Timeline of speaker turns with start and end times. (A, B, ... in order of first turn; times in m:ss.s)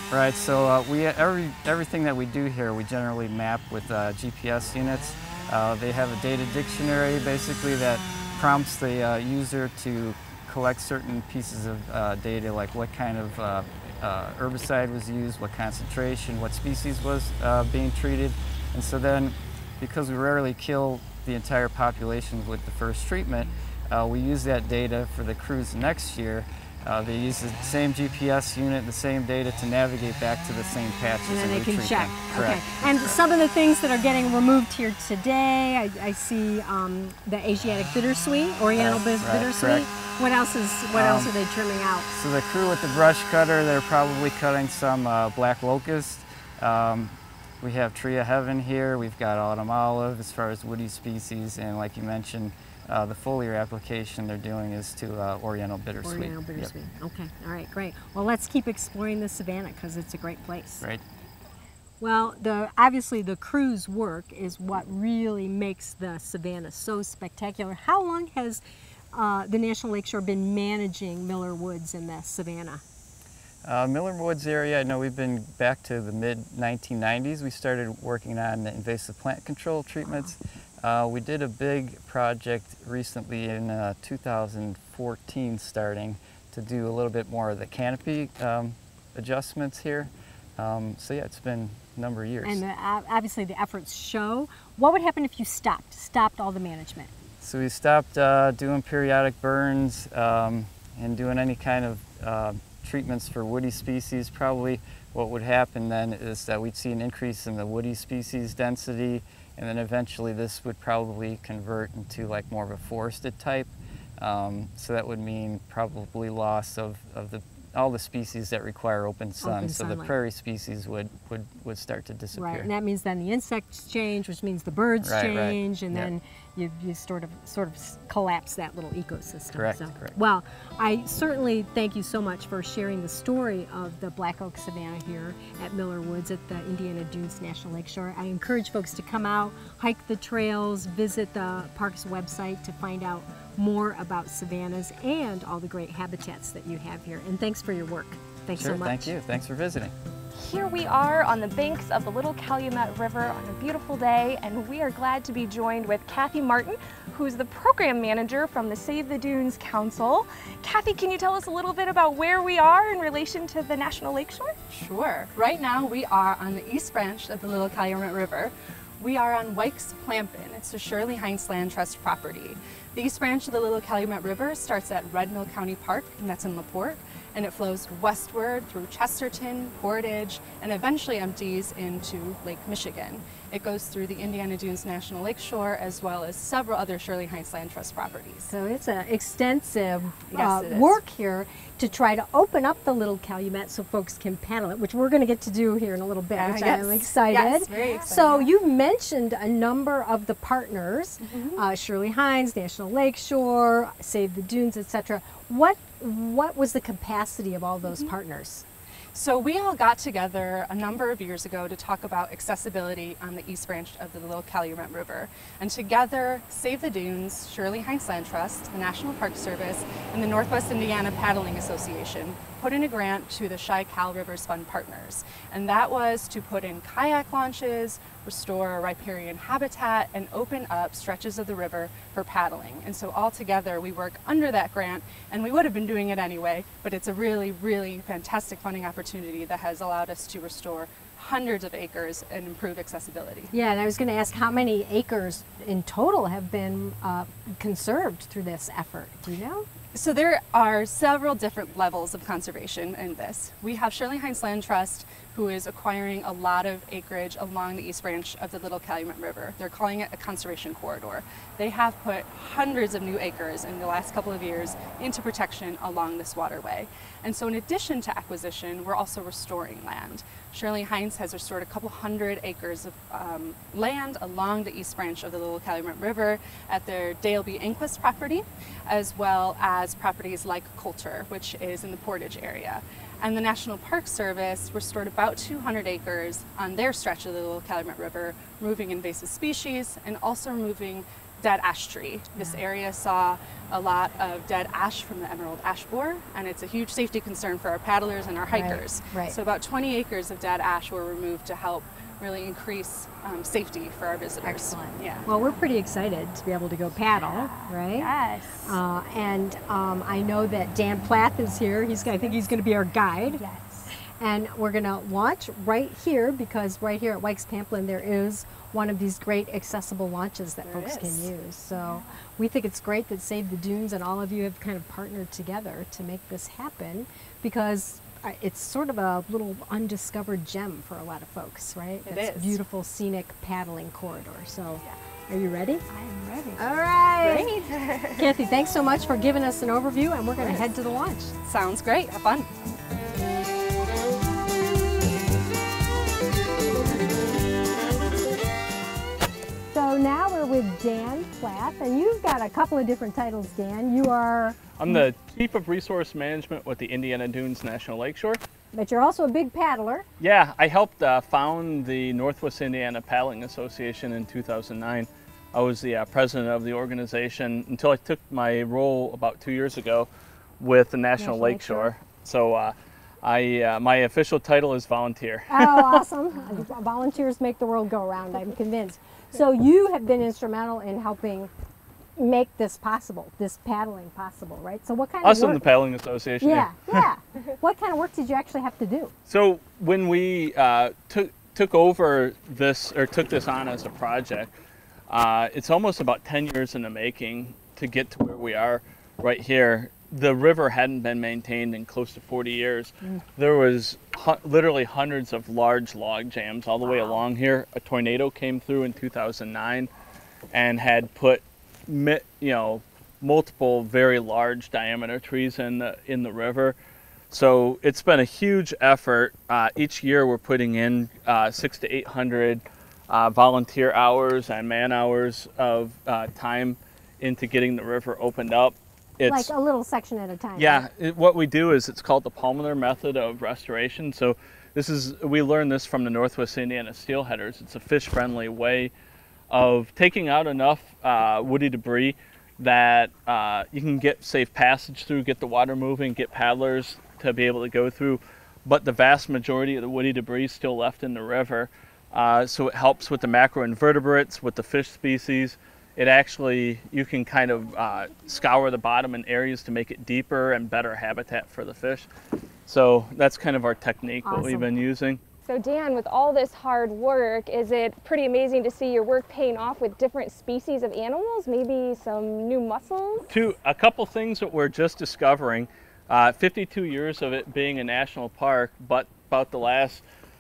0:00.1-0:33.2 A
0:31.3-0:42.1 B
0:38.7-0:39.9 A
0:40.9-0:41.3 A
0:42.1-0:56.7 A
0:56.0-1:00.9 B
1:02.0-1:08.6 B
1:09.1-1:12.8 B
1:13.6-1:32.6 A
1:32.4-1:37.1 B
1:37.4-2:02.7 A
1:59.4-2:00.2 B
2:02.3-2:29.1 B
2:05.0-2:06.1 A
2:09.5-2:10.2 A
2:28.6-2:29.9 A
2:30.4-2:44.5 C
2:44.7-3:08.5 D
3:08.5-3:28.6 B
3:10.3-3:11.0 D
3:16.4-3:18.5 D
3:17.7-3:18.0 C
3:29.1-4:03.5 D
4:03.5-4:09.7 B
4:09.9-5:05.3 D
4:58.5-4:59.4 B
5:04.4-5:08.1 B
5:07.2-5:08.8 C
5:08.6-5:35.8 B
5:13.2-5:13.9 C
5:20.8-5:21.1 C
5:21.8-5:22.1 C
5:32.0-5:32.6 D
5:35.9-5:36.6 C
5:36.6-5:37.5 B
5:37.3-5:37.8 D
5:37.3-5:38.3 C
5:38.2-5:41.3 B
5:41.4-5:42.5 D
5:49.7-5:55.0 B
5:54.8-5:58.4 E
5:58.7-6:00.0 B
6:00.2-6:10.1 E
6:10.6-6:16.0 E
6:11.2-6:11.9 B
6:15.5-6:21.5 B
6:22.2-6:25.6 B
6:25.2-6:27.1 E
6:26.4-6:29.1 B
6:29.3-6:34.5 E
6:35.1-6:49.9 E
6:50.5-6:56.8 E
6:57.3-7:09.5 E
7:09.3-7:10.9 B
7:10.6-7:18.9 E
7:19.5-7:42.1 E
7:42.7-7:45.2 E
7:44.2-7:44.7 B
7:45.5-7:53.3 C
7:53.3-8:00.0 E